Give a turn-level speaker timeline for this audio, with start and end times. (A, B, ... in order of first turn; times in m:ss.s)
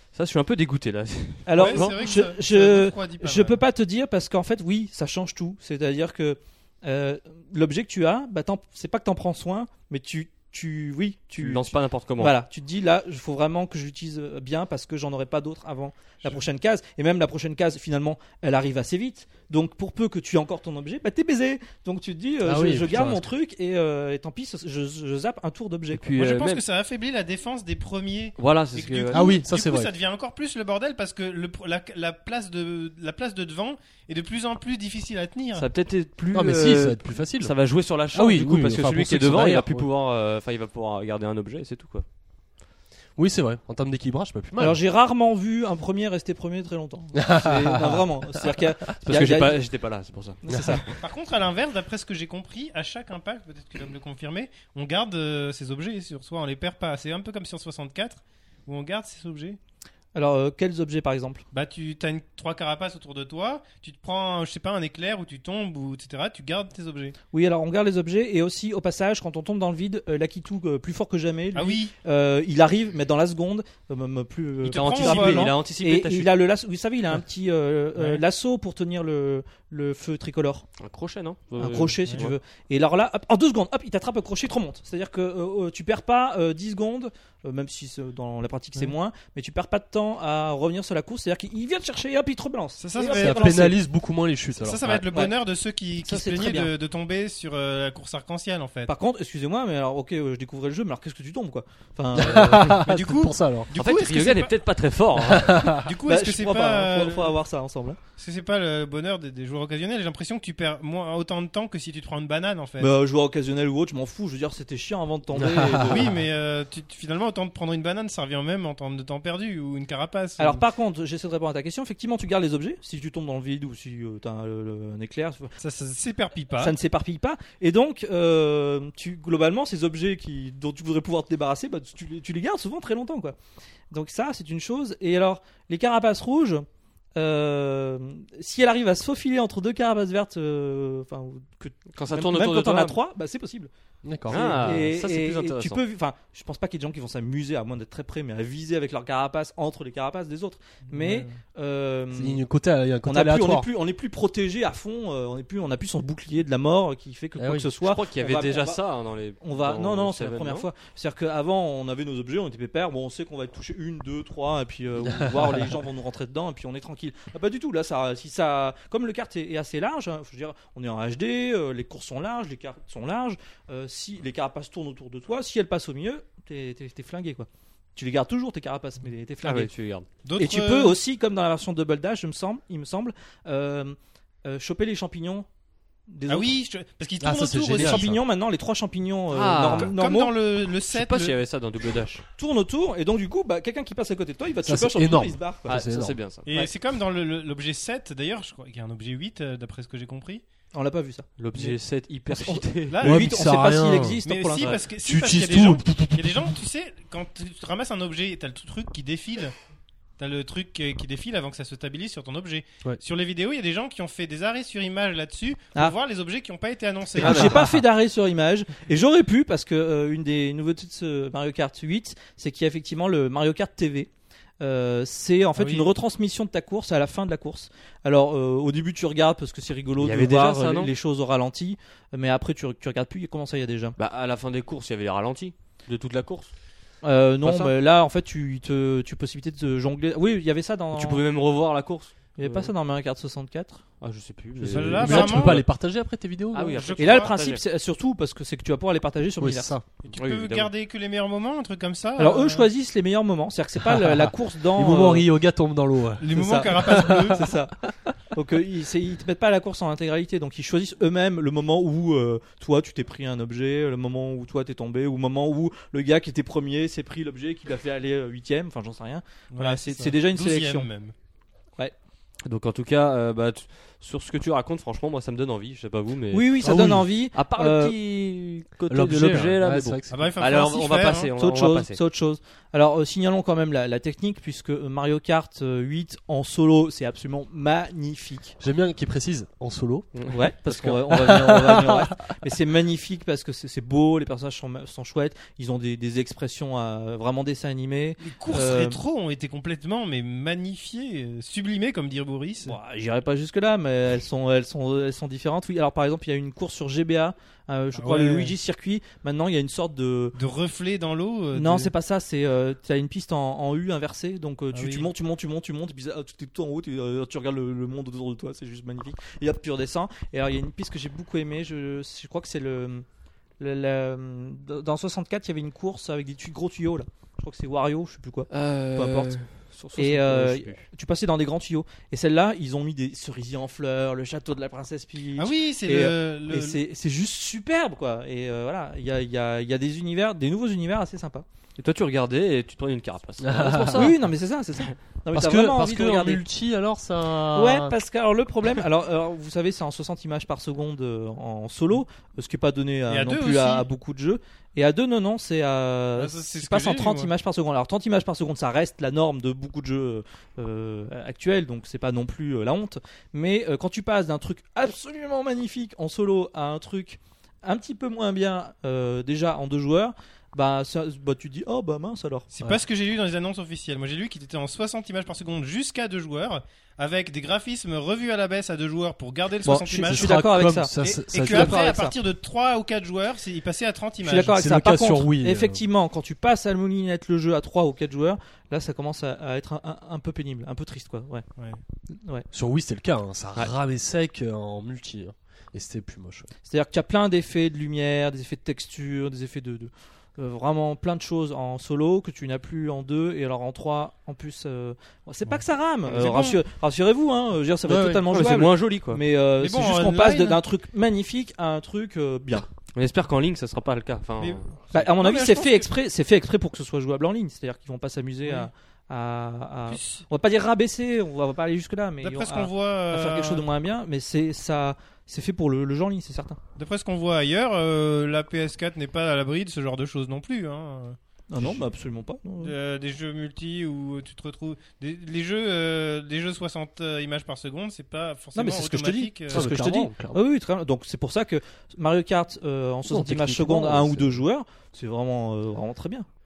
0:00.1-0:02.2 A
0:01.4-0:26.0 B
0:01.6-0:03.6 C
0:11.4-0:12.3 A
0:22.4-0:23.3 D
0:25.9-0:26.6 A
0:26.2-0:35.7 C
0:28.4-0:29.3 A
0:29.1-0:29.9 D
0:35.5-0:42.0 A
0:36.3-0:37.5 D
0:38.1-0:39.9 D
0:43.2-0:44.8 D
0:44.6-0:49.6 B
0:47.2-0:48.5 D
0:49.0-0:51.0 A
0:50.4-0:50.8 B
0:51.0-0:59.6 C
1:00.1-1:01.4 B
1:01.5-1:07.2 C
1:07.3-1:20.6 B
1:11.5-1:11.9 C
1:14.6-1:15.5 C
1:14.7-1:16.3 A
1:18.0-1:18.2 C
1:20.8-1:22.4 A
1:21.6-1:33.8 B
1:32.8-1:33.7 C
1:33.1-1:35.0 D
1:34.6-1:38.9 C
1:36.0-1:36.7 B
1:38.9-1:42.8 B
1:42.1-1:43.7 D
1:42.7-1:44.5 C
1:43.7-1:45.6 A
1:45.2-1:45.9 D
1:45.7-1:47.4 C
1:46.0-1:48.0 B
1:48.2-1:52.9 C
1:52.8-1:56.1 B
1:55.3-1:56.1 D
1:55.8-2:00.6 C
2:00.4-2:05.5 B
2:05.6-2:06.7 C
2:06.6-2:13.4 B
2:13.9-2:16.6 B
2:17.2-2:23.7 B
2:21.9-2:23.0 A
2:24.0-2:24.6 D
2:24.3-2:32.4 B
2:24.3-2:25.8 A
2:30.9-2:31.3 C
2:32.1-2:33.7 D
2:33.0-2:38.8 B
2:37.4-2:37.7 D
2:37.8-2:40.7 A
2:39.4-2:59.7 B
2:45.0-2:45.7 D
2:59.4-3:00.1 A
3:00.2-3:01.0 C
3:00.4-3:05.5 B
3:06.1-3:06.5 B
3:06.3-3:08.1 C
3:07.2-3:08.2 D
3:07.7-3:10.4 B
3:09.3-3:09.9 A
3:09.8-3:11.3 C
3:10.9-3:12.2 A
3:12.4-3:15.8 B
3:14.6-3:16.2 D
3:15.7-3:16.5 A
3:16.5-3:20.4 C
3:20.7-3:21.3 B
3:21.4-3:23.0 A
3:22.3-3:24.8 B
3:22.9-3:23.6 C
3:23.0-3:24.2 D
3:24.2-3:29.5 C
3:24.9-3:26.5 D
3:30.2-3:37.6 C
3:37.2-3:44.1 B
3:37.2-3:37.5 A
3:44.6-3:54.0 B
3:45.6-3:45.9 C
3:50.0-3:50.9 A
3:54.0-3:56.5 A
3:57.0-4:01.2 B
3:57.4-3:57.7 A
4:00.9-4:02.7 A
4:02.4-4:03.8 B
4:04.0-4:05.6 A
4:04.6-4:06.8 D
4:04.6-4:05.6 C
4:06.5-4:07.6 A
4:06.7-4:07.3 C
4:07.0-4:09.7 B
4:09.4-4:09.8 D
4:10.0-4:12.7 C
4:10.2-4:10.7 A
4:12.2-4:15.3 B
4:13.8-4:17.5 D
4:16.2-4:17.5 C
4:16.3-4:17.7 B
4:18.3-4:30.9 B
4:29.5-4:31.1 C
4:32.4-4:36.7 A
4:36.3-4:37.9 B
4:36.6-4:37.1 D
4:37.3-4:42.0 A
4:38.9-4:40.3 D
4:40.1-4:41.3 C
4:41.3-4:48.6 B
4:48.6-4:50.1 D
4:50.1-4:50.9 A
4:50.3-4:59.0 B
4:51.1-4:52.0 D
4:58.2-5:02.8 C
5:02.6-5:10.4 B
5:07.9-5:08.5 C
5:10.4-5:11.9 C
5:11.5-5:23.0 B
5:14.7-5:15.1 C
5:23.6-5:29.4 B
5:28.5-5:30.8 A
5:30.0-5:41.4 B
5:35.4-5:36.8 C
5:41.8-5:44.2 A
5:43.4-5:44.2 D
5:43.9-5:46.4 B
5:45.3-5:48.0 D
5:47.5-6:12.5 B
5:53.1-5:53.9 C
5:56.2-5:57.3 C
6:12.5-6:24.6 C
6:19.6-6:22.1 B
6:20.0-6:21.8 D
6:24.2-6:31.4 B
6:24.4-6:25.8 D
6:32.5-6:36.5 D
6:36.6-6:52.7 B
6:46.0-6:46.6 C
6:47.8-6:48.5 D
6:48.3-6:49.2 A
6:49.6-6:50.6 C
6:52.9-6:54.6 A
6:54.4-6:55.9 C
6:54.9-7:06.6 B
6:59.9-7:00.2 C
7:02.2-7:03.6 C
7:06.8-7:11.8 C
7:11.5-7:12.7 B
7:12.6-7:19.7 C
7:18.5-7:26.3 B
7:19.5-7:20.4 D
7:23.0-7:24.4 D